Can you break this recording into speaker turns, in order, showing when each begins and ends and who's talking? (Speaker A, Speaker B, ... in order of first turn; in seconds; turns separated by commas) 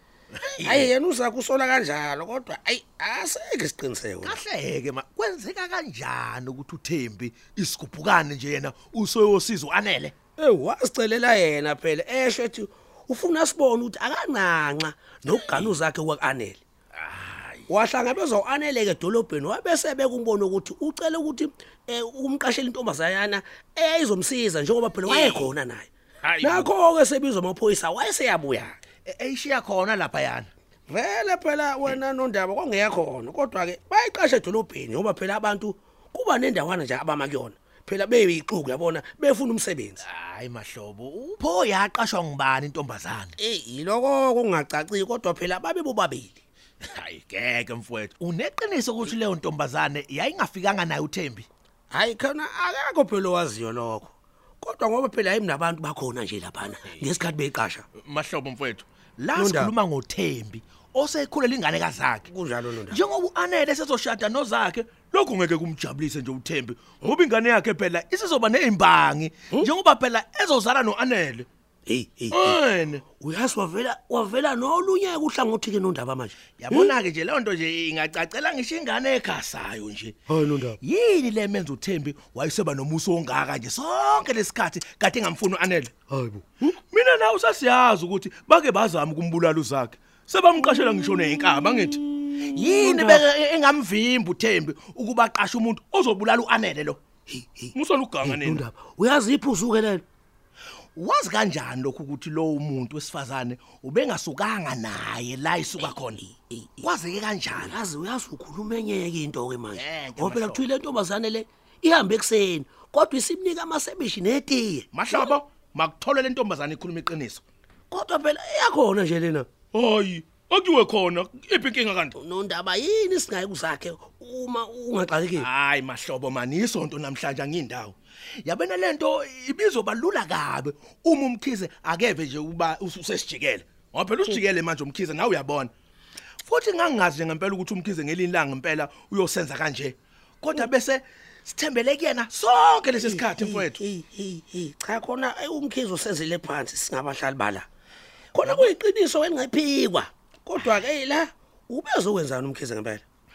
Speaker A: 0.3-0.9, Speaker B: 0.6-4.3, Speaker A: 4.2-10.1, Speaker B: 10.4-16.6, Speaker A: 15.2-15.8, Speaker A: 17.0-17.7, Speaker B: 17.7-25.9, Speaker A: 25.0-25.5, Speaker A: 26.2-26.7, Speaker B: 26.4-28.8, Speaker A: 29.1-30.5, Speaker B: 30.9-40.0, Speaker A: 40.0-43.4, Speaker B: 43.4-46.4, Speaker A: 46.8-51.5, Speaker B: 51.9-57.9, Speaker A: 56.8-57.1, Speaker A: 57.9-62.3, Speaker B: 59.4-59.7, Speaker B: 62.3-63.0, Speaker A: 62.9-71.5, Speaker B: 71.8-72.6, Speaker A: 72.3-73.0, Speaker B: 73.2-76.9, Speaker A: 76.5-80.2, Speaker B: 80.3-80.8, Speaker A: 80.8-86.0, Speaker B: 86.1-86.7, Speaker A: 86.9-97.0, Speaker B: 92.8-93.2, Speaker B: 97.3-97.7, Speaker A: 97.7-98.7, Speaker B: 98.2-100.0, Speaker A: 101.0-106.2, Speaker B: 106.3-106.6, Speaker A: 106.8-107.8, Speaker B: 107.5-114.8, Speaker A: 109.7-110.7, Speaker A: 114.9-117.4, Speaker B: 117.9-119.5, Speaker A: 119.7-122.2, Speaker B: 122.2-125.5, Speaker A: 125.3-135.7, Speaker A: 136.4-143.8, Speaker B: 143.1-147.7, Speaker B: 148.3-153.0, Speaker A: 148.3-148.7